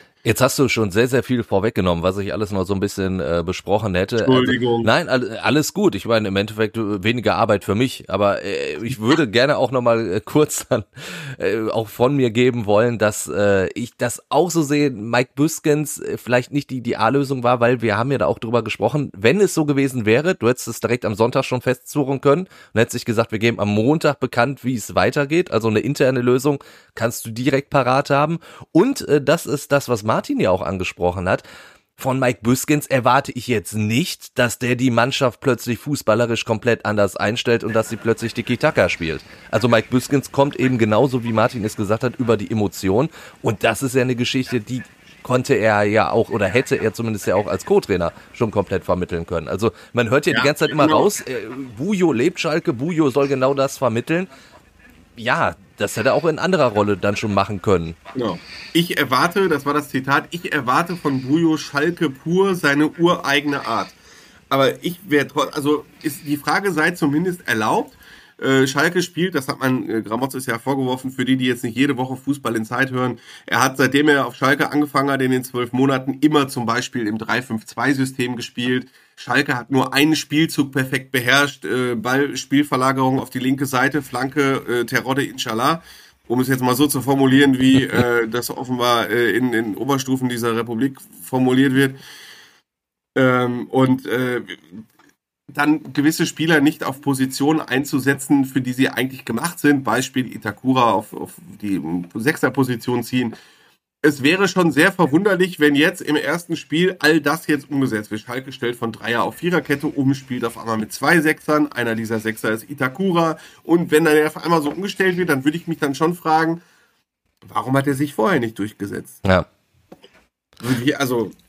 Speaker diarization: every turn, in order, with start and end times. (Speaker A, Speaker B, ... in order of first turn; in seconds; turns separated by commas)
Speaker A: 0.2-31.4, Speaker B: 4.2-4.9, Speaker A: 32.0-54.3, Speaker B: 50.3-51.1, Speaker A: 55.2-58.0, Speaker B: 58.1-64.0, Speaker B: 64.5-92.0, Speaker B: 93.2-94.8, Speaker B: 95.5-103.4, Speaker B: 104.0-116.6, Speaker B: 117.5-119.2, Speaker B: 120.6-121.3